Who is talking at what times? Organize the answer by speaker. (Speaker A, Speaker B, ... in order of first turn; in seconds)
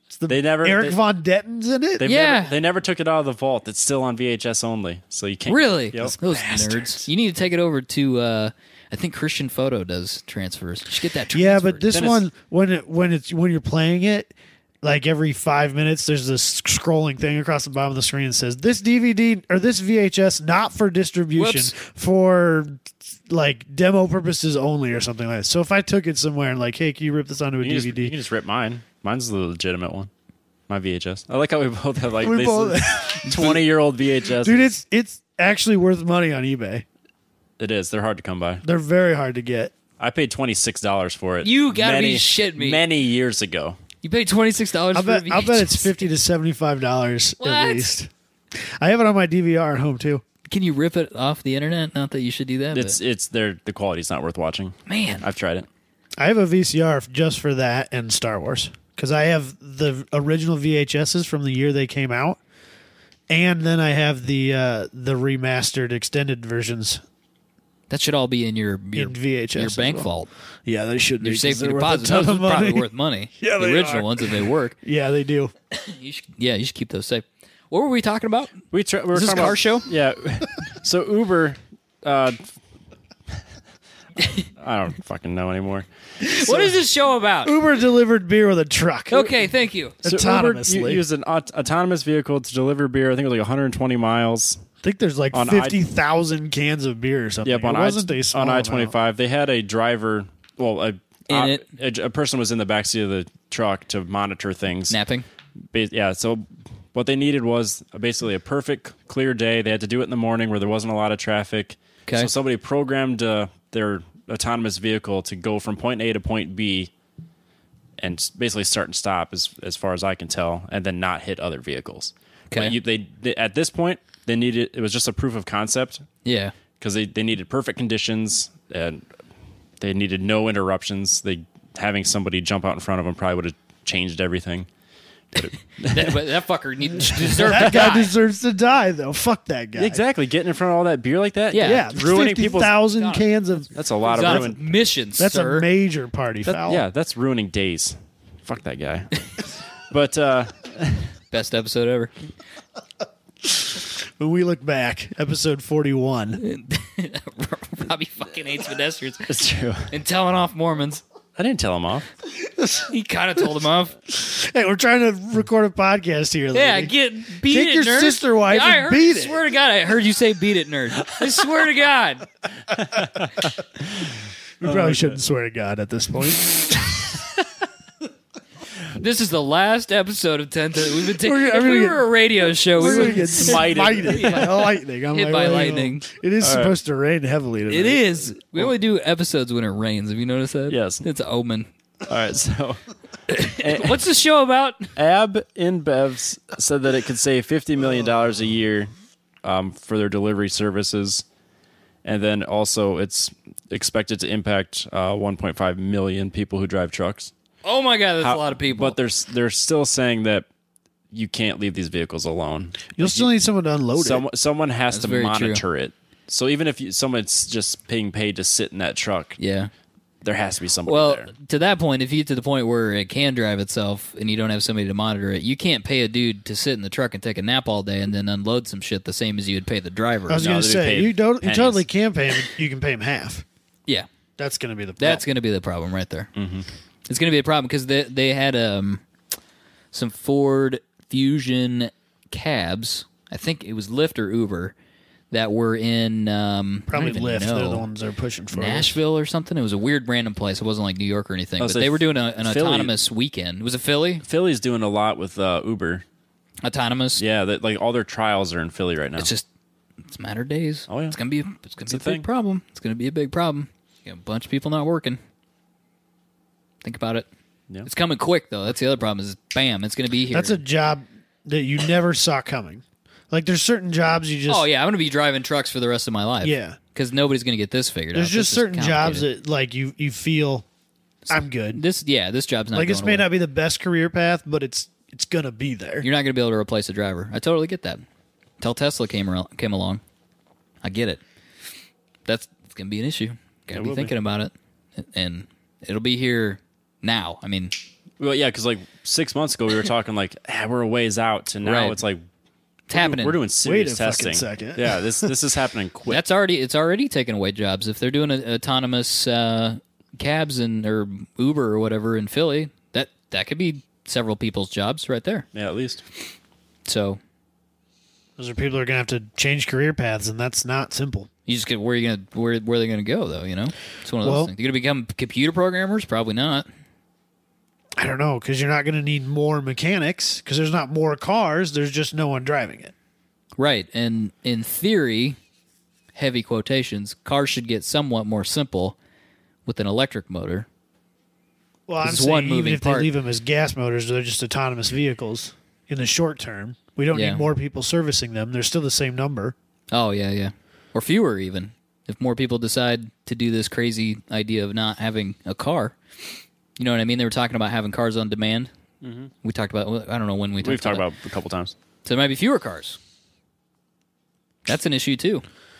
Speaker A: 0.1-2.1, 6.1-7.0, 11.3-28.1, 32.2-33.6, 34.4-36.8, 38.6-39.7, 44.9-50.2, 56.2-62.4, 63.3-67.0, 69.0-70.1, 70.7-75.5, 86.2-86.8, 87.4-89.3, 90.0-91.0, 94.8-98.9, 137.2-140.0, 141.6-144.5, 145.2-146.8, 153.4-156.4, 162.4-162.9, 164.1-169.4, 174.6-176.9, 181.1-182.0, 182.8-188.1, 212.9-214.2, 230.3-233.4, 234.4-235.2, 246.9-249.0, 270.3-274.6, 276.4-276.8, 278.1-280.6, 281.3-281.8, 282.7-286.1, 303.6-305.3, 318.4-321.3, 324.2-324.5, 328.0-332.9, 341.9-349.5
Speaker B: 0.3-0.9, 2.0-6.1, 11.9-12.2, 27.6-30.1, 30.7-34.7, 37.6-38.6, 40.0-43.8, 52.7-55.7, 78.7-82.4, 84.6-85.9, 90.0-94.6, 95.3-95.8, 97.4-105.0, 105.7-116.9, 118.0-126.0, 126.8-129.0, 129.8-134.7, 135.3-136.2, 137.0-137.8, 139.8-142.7, 143.7-144.6, 146.4-149.2, 149.9-151.1, 159.3-159.9, 161.3-162.1, 172.8-175.2, 182.8-184.6, 186.4-186.7, 190.7-191.0, 192.1-192.8, 193.4-194.0, 194.9-198.9, 199.4-201.2, 202.0-207.3, 208.2-210.4, 211.1-213.2, 213.9-219.4, 220.2-221.3, 230.4-231.8, 236.3-236.7, 251.6-252.9, 254.2-256.0, 257.2-259.3, 260.9-261.2, 261.9-262.2, 293.7-294.1, 298.2-302.2, 302.9-306.2, 315.5-316.0, 359.0-359.3, 360.6-361.7
Speaker C: 2.0-2.5, 5.5-12.0, 21.4-21.7, 41.4-42.8, 44.0-45.9, 47.4-47.9, 50.5-53.0, 54.9-55.2, 67.9-70.3, 71.2-74.8, 75.7-78.5, 79.1-79.9, 86.3-87.5, 89.1-90.0, 101.3-101.6, 104.9-105.2, 126.2-126.5, 135.8-138.1, 141.5-143.3, 144.1-145.7, 151.3-152.1, 156.4-159.3, 159.9-161.0, 162.9-163.9, 166.5-172.3, 178.9-184.6, 185.1-186.0, 187.7-191.7, 193.3-194.9, 207.6-208.9, 214.9-215.6, 219.4-219.7, 220.8-230.5, 235.0-236.3, 237.1-239.0, 239.9-244.7, 245.3-247.8, 248.5-254.2, 256.6-257.2, 259.2-259.4, 260.1-265.2, 266.8-267.3, 267.9-270.6, 274.5-279.3, 281.7-283.3, 286.0-288.0, 288.6-290.0, 290.8-291.2, 292.2-297.7, 301.6-302.0, 302.9-303.4, 306.1-315.4, 316.9-317.2, 321.5-326.7, 333.6-335.4, 336.1-338.9, 339.6-340.7, 342.0-343.1, 347.1-347.5, 349.9-356.0, 356.8-358.7, 359.4-361.0, 362.0-363.0, 364.6-365.4